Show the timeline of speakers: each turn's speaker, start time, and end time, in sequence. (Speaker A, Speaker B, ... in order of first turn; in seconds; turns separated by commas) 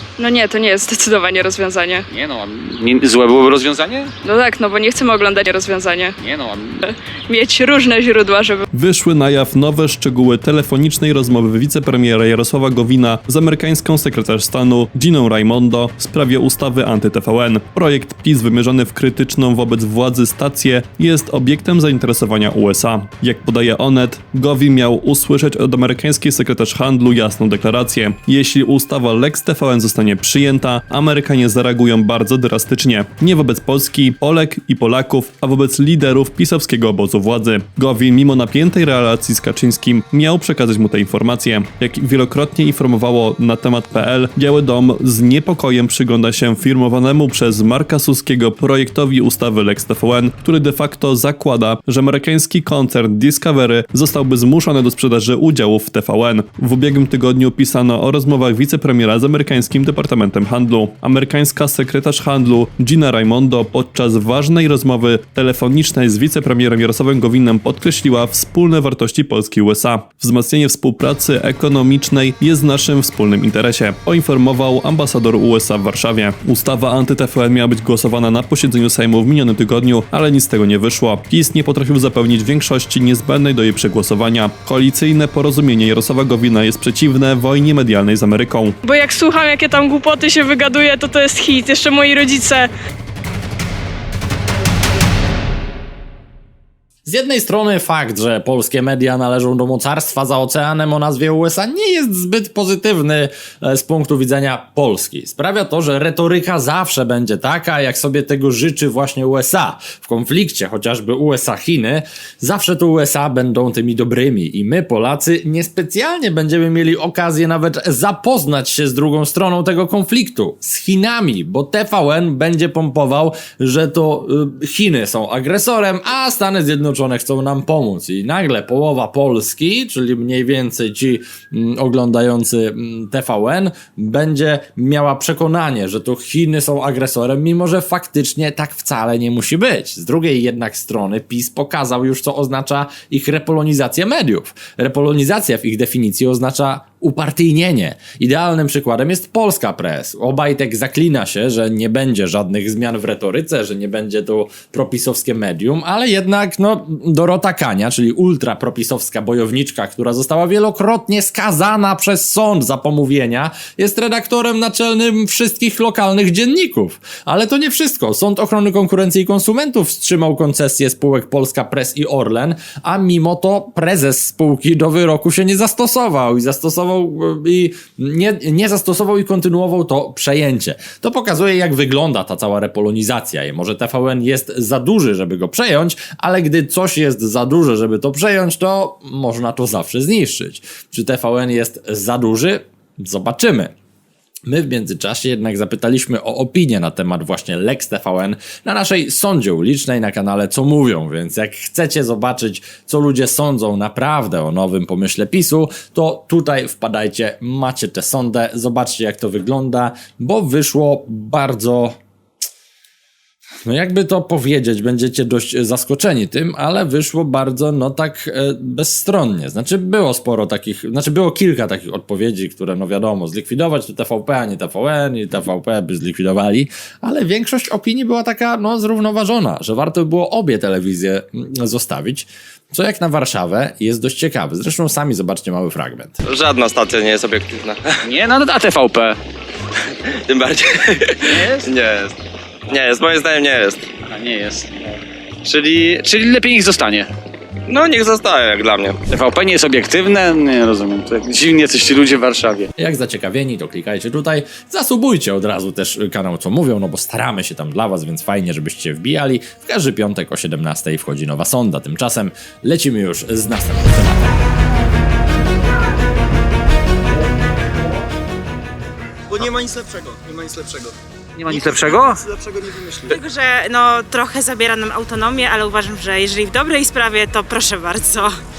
Speaker A: 0.2-2.1, Speaker B: 2.1-4.1, Speaker A: 4.2-6.2, Speaker B: 6.2-6.8, Speaker A: 6.8-8.7, Speaker C: 8.7-88.8, Speaker A: 88.8-92.7, Speaker D: 97.1-193.7, Speaker D: 194.5-212.0, Speaker D: 213.7-236.2, Speaker E: 236.2-238.0, Speaker B: 238.0-239.2, Speaker E: 240.1-242.2, Speaker B: 241.3-241.7, Speaker E: 242.7-243.9, Speaker B: 244.1-244.7, Speaker B: 245.4-247.1, Speaker E: 247.7-249.0, Speaker B: 249.1-252.7, Speaker D: 252.8-264.4, Speaker F: 269.3-270.9, Speaker B: 271.4-272.2, Speaker F: 271.5-273.1, Speaker G: 273.1-278.3